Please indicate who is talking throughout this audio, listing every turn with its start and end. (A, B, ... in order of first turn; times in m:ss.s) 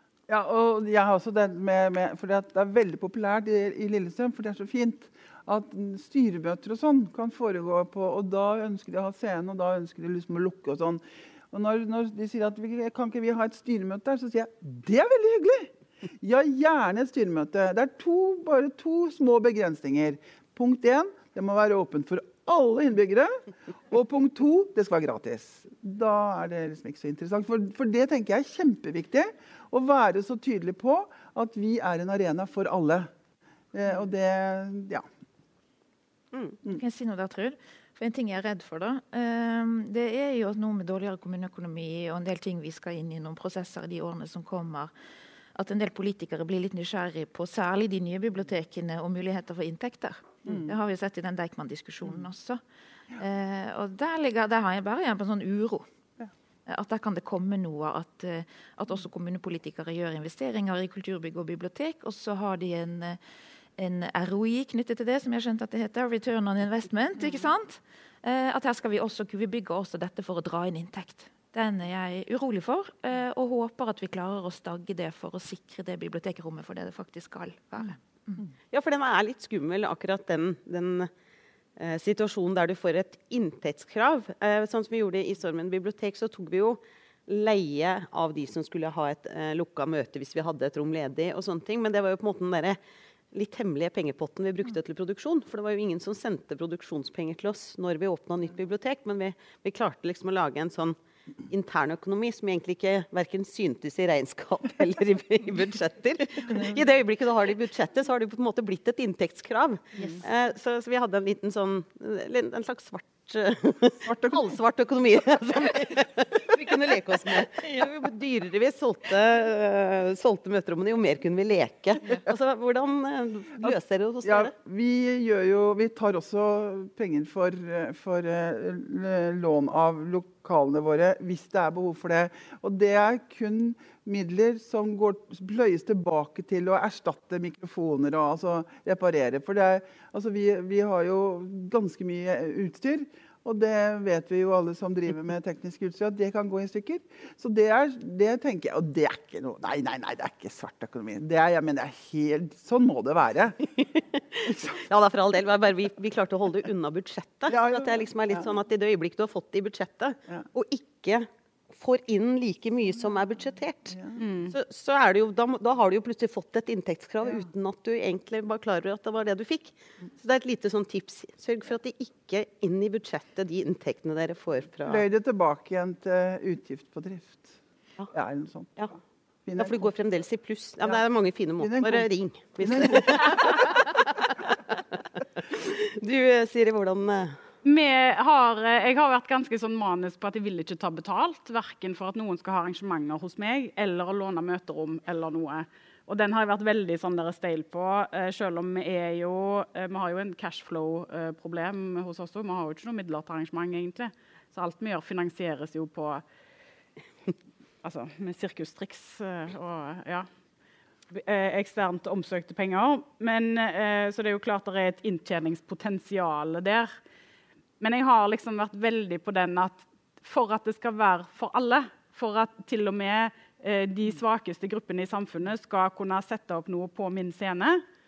0:00.3-0:33.1 A
0:33.7-0:35.0 A
0:36.3-0:36.6 B
0:36.7-0:44.9 C
0:45.5-0:52.6 C
0:53.1-0:55.8 C
0:56.7-1:03.2 C
1:03.8-1:18.5 C
1:18.7-1:21.1 B
1:21.8-1:32.8 B
1:33.3-1:41.0 B
1:41.5-2:04.5 B
1:54.0-1:54.5 A
2:03.6-2:33.6 A
2:33.8-2:55.0 B
2:34.4-2:34.8 A
2:37.5-2:38.5 A
2:43.9-2:44.2 A
2:44.2-2:44.6 D
2:54.8-2:57.6 A
2:58.1-2:58.9 A
2:59.4-2:59.9 A
2:59.6-3:07.4 B
3:01.6-3:02.1 A
3:02.6-3:03.6 A
3:07.6-3:26.2 D
3:27.8-3:30.3 D
3:31.1-3:36.9 D
3:37.8-3:47.8 D